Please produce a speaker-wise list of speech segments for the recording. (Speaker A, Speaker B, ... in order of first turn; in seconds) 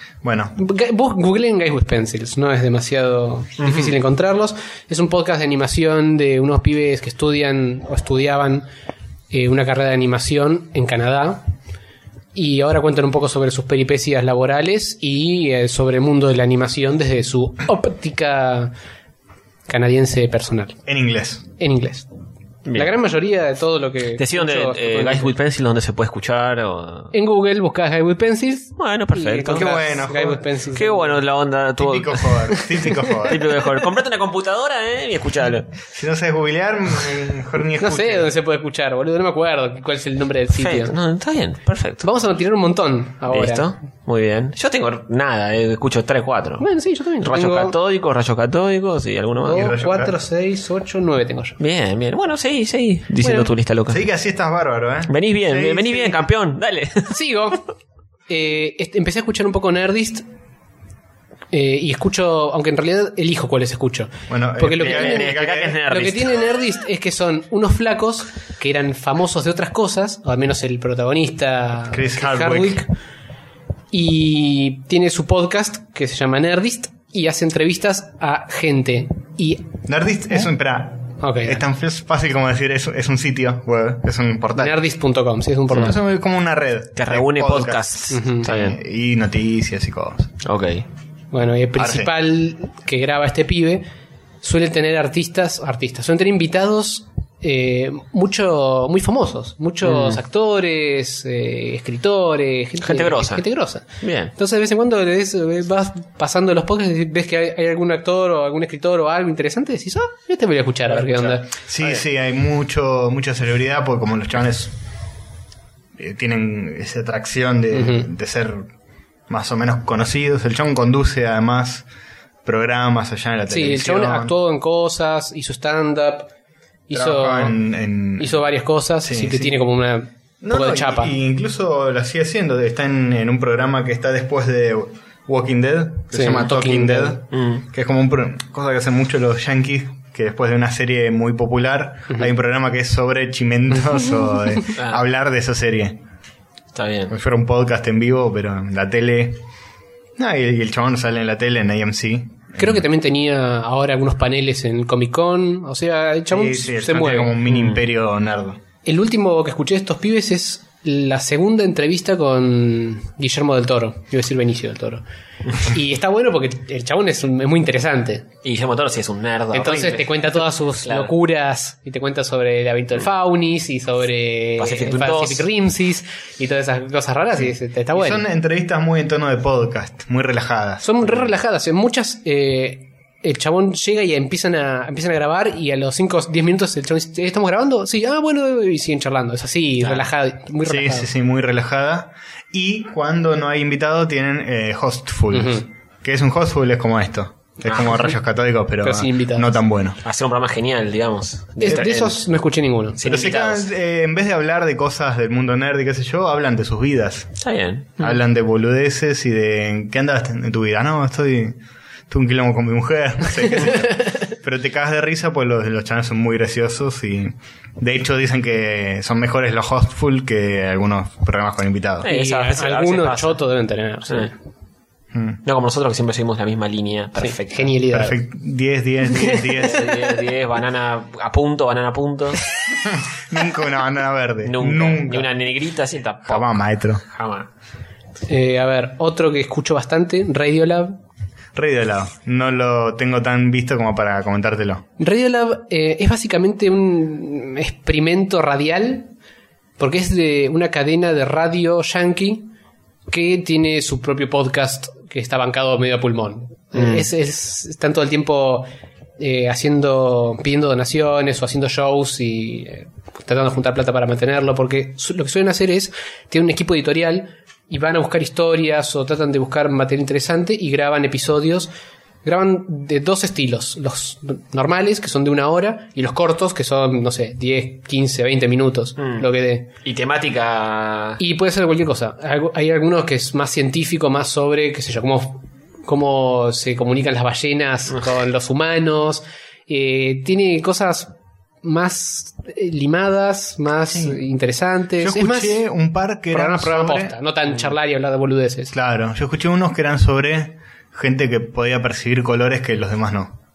Speaker A: 0.2-0.6, 20.9-21.4, 29.5-30.4, 31.8-33.6, 35.9-38.3, 49.5-50.1, 53.9-56.2, 64.3-65.8, 71.9-72.8, 79.9-84.8, 85.7-90.3, 91.8-92.1, 111.7-114.8, 116.0-118.6, 119.3-121.9, 122.4-124.3, 126.9-128.4, 129.0-129.6, 130.4-146.0, 147.1-149.4, 150.2-152.8, 156.3-158.6, 177.9-180.8, 190.6-200.0, 203.0-207.3, 208.0-211.6, 212.1-222.1, 225.1-225.4, 227.9-229.9, 232.8-235.3, 236.2-237.0, 241.5-244.8, 293.9-294.2, 295.0-297.1, 298.7-303.4
Speaker B: 0.6-8.7, 9.3-11.4, 12.3-18.7, 19.7-20.8, 21.6-22.1, 22.7-25.3, 27.1-31.2, 32.5-33.1, 37.8-40.9, 42.0-43.7, 46.6-47.8, 49.4-51.6, 53.2-53.5, 57.1-57.7, 58.3-60.2, 61.5-72.9, 73.9-79.7, 81.2-81.6, 84.5-86.0, 88.1-88.5, 91.3-93.8, 94.4-111.5, 117.7-118.1, 123.5-126.3, 126.9-127.6, 128.2-131.1, 136.1-137.2, 152.6-157.4, 158.8-168.3, 169.5-178.3, 180.8-191.1, 195.3-195.7, 197.7-198.1, 198.8-199.5, 201.6-203.0, 222.0-224.3, 227.2-228.2, 229.1-230.0, 238.3-241.0, 245.0-249.1, 249.8-252.5, 253.1-258.7, 259.2-271.7, 272.2-279.7, 281.2-295.6, 296.3-298.7
Speaker C: 3.6-4.0, 22.6-22.9, 24.2-27.1, 28.8-29.8, 30.7-32.6, 33.2-35.8, 40.6-42.1, 43.3-46.7, 47.2-49.7, 51.6-54.0, 55.1-57.2, 64.8-66.4, 87.0-88.8, 90.4-90.8, 99.8-100.2, 102.8-103.4, 104.0-104.3, 110.9-112.0, 137.3-137.6, 144.8-145.0, 146.7-147.1, 157.5-157.8, 168.4-171.1, 174.6-175.5, 189.8-190.1, 200.0-202.3, 203.0-203.7, 207.4-208.2, 222.0-223.4, 225.4-227.7, 229.6-232.4, 234.4-236.5, 237.0-237.5, 256.8-257.1, 279.0-279.3, 279.8-281.2